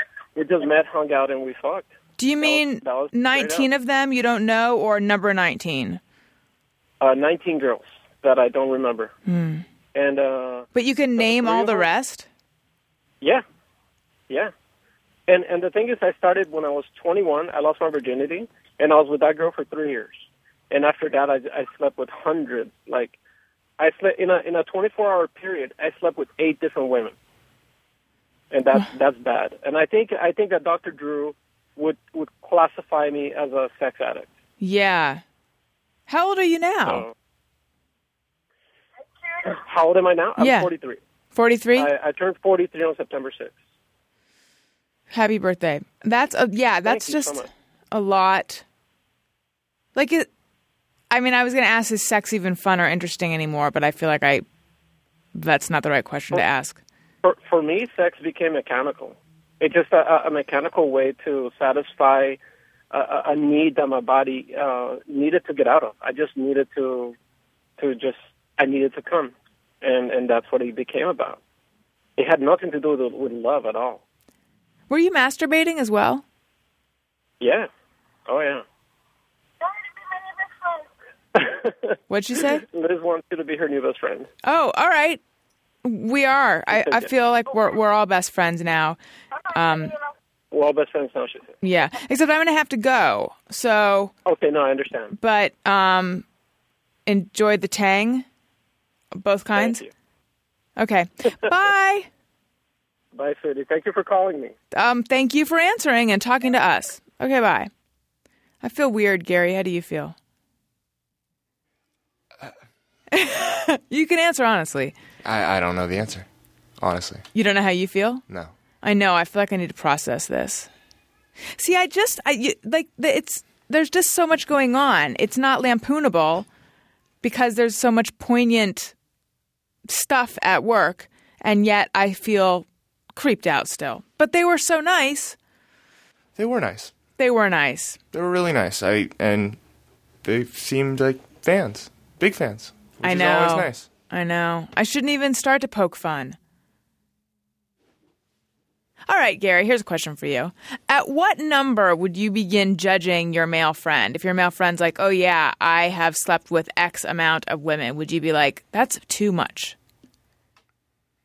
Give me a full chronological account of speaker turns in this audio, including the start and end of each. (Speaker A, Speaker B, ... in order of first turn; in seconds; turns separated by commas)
Speaker A: 0.3-1.9, Speaker B: 2.2-6.0, Speaker A: 2.4-3.7, Speaker A: 7.0-9.1, Speaker B: 9.2-9.6, Speaker A: 9.9-10.7, Speaker B: 10.7-12.3, Speaker A: 11.2-11.8, Speaker A: 15.3-23.1, Speaker A: 23.8-27.1, Speaker A: 28.5-34.3, Speaker B: 34.6-35.2, Speaker B: 36.1-37.0, Speaker A: 36.9-37.1, Speaker A: 39.5-41.0, Speaker B: 40.4-40.7, Speaker B: 41.3-41.9, Speaker A: 41.8-43.5, Speaker B: 45.1-48.6, Speaker A: 46.8-47.5, Speaker B: 49.9-50.3, Speaker B: 51.1-54.4, Speaker B: 55.3-56.8, Speaker A: 57.2-62.4, Speaker A: 62.9-67.1, Speaker A: 67.8-71.4, Speaker A: 72.2-74.0, Speaker B: 74.9-76.2, Speaker A: 77.4-77.7, Speaker A: 78.3-78.6, Speaker A: 81.3-82.0, Speaker B: 82.1-82.6, Speaker A: 82.6-84.3, Speaker B: 84.4-85.2, Speaker B: 85.8-89.0, Speaker A: 86.7-87.1, Speaker B: 89.5-89.9, Speaker A: 90.5-91.5, Speaker B: 91.6-94.1, Speaker A: 94.2-95.1, Speaker B: 95.1-96.2, Speaker B: 97.0-98.2, Speaker B: 99.2-99.8, Speaker A: 99.5-99.9, Speaker B: 100.8-102.1, Speaker A: 103.1-104.5, Speaker B: 104.7-107.7, Speaker B: 108.6-110.1, Speaker B: 113.1-114.9, Speaker C: 115.2-116.3, Speaker C: 116.8-117.2, Speaker B: 117.3-118.2, Speaker B: 118.8-120.7, Speaker B: 121.6-126.5, Speaker B: 127.2-128.9, Speaker B: 129.9-135.3, Speaker C: 136.3-136.9, Speaker B: 137.2-138.0, Speaker C: 138.1-139.6, Speaker C: 140.2-143.9, Speaker B: 143.0-146.4, Speaker B: 149.1-159.8